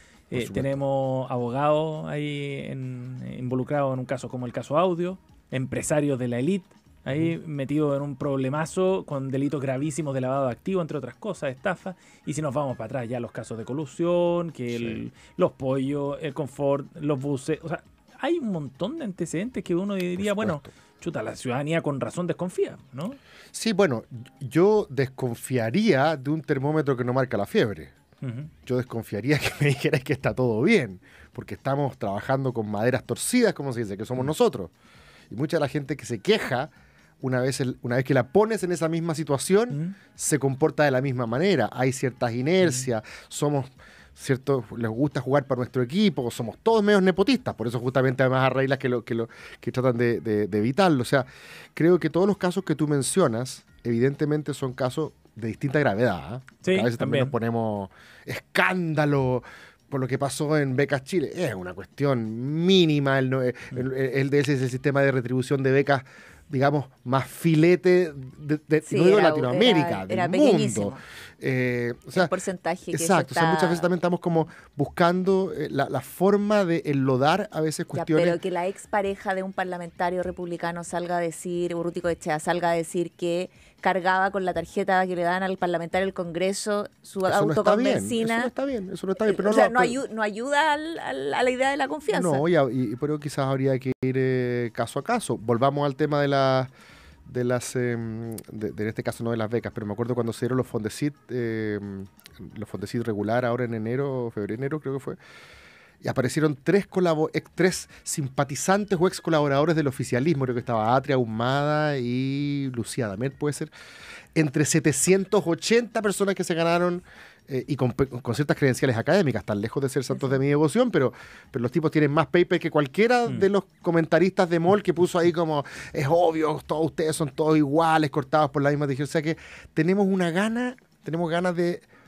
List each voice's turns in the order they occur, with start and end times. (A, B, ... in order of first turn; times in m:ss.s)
0:00.3-0:23.2 A
0:00.3-0:00.8 B
0:07.1-0:07.3 B
0:14.7-0:15.0 B
0:20.2-0:20.7 B
0:23.5-0:27.9 B
0:28.2-0:28.5 A
0:28.6-0:34.7 B
0:35.3-1:12.3 B
0:42.6-0:42.9 A
0:56.6-0:57.3 A
1:08.8-1:11.0 C
1:12.1-1:13.9 C
1:12.9-1:18.4 B
1:17.9-1:28.5 C
1:27.2-1:30.0 B
1:29.2-1:32.4 C
1:32.1-1:36.7 B
1:37.2-1:45.2 B
1:46.0-1:53.7 B
1:54.3-2:11.8 B
2:00.1-2:00.4 C